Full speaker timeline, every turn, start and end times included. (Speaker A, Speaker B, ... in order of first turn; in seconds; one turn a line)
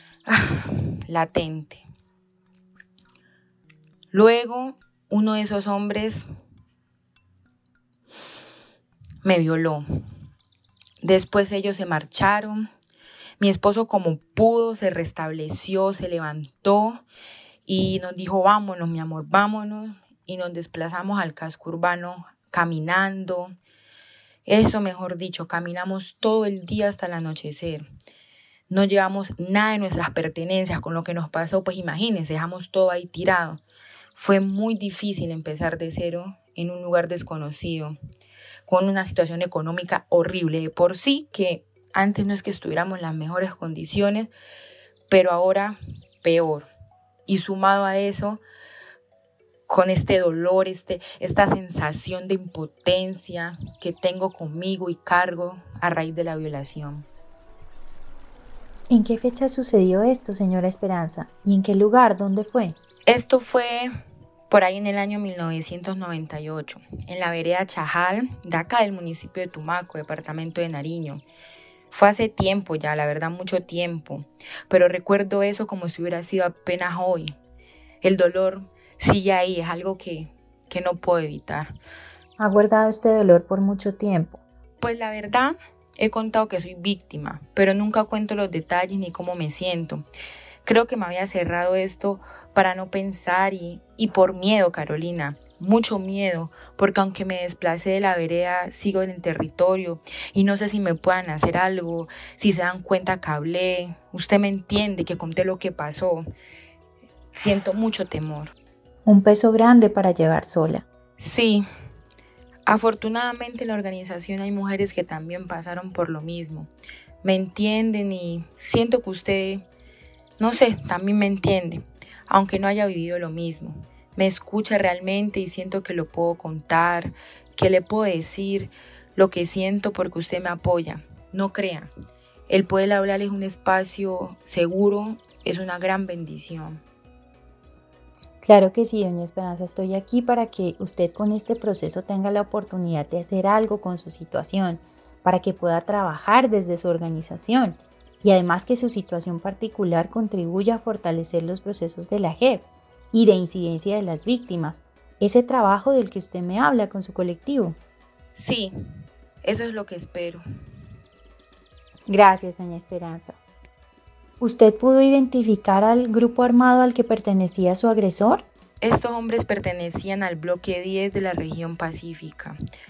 Speaker A: 0.2-1.8
Speaker A: 4.1-6.2
Speaker A: 9.2-9.8
Speaker A: 11.0-12.6
Speaker A: 13.4-17.0
Speaker A: 17.7-23.6
Speaker A: 24.4-27.9
Speaker A: 28.7-33.6
Speaker A: 34.1-38.0
Speaker A: 38.7-44.3
Speaker A: 45.1-46.7
Speaker A: 47.3-48.4
Speaker A: 49.7-57.1
Speaker B: 58.9-62.8
Speaker A: 63.1-63.9
Speaker A: 64.5-71.2
Speaker A: 71.9-77.4
Speaker A: 78.0-81.7
Speaker B: 82.4-84.4
Speaker A: 84.8-90.1
Speaker A: 90.6-106.2
Speaker A: 107.3-108.5
Speaker B: 109.0-110.8
Speaker A: 111.2-111.6
Speaker A: 112.7-116.7
Speaker A: 117.2-119.6
Speaker A: 120.4-131.9
Speaker A: 132.5-136.8
Speaker B: 138.4-157.8
Speaker A: 158.3-158.7
Speaker A: 159.4-160.4
Speaker B: 162.1-163.4
Speaker B: 164.4-168.4
Speaker A: 168.8-172.6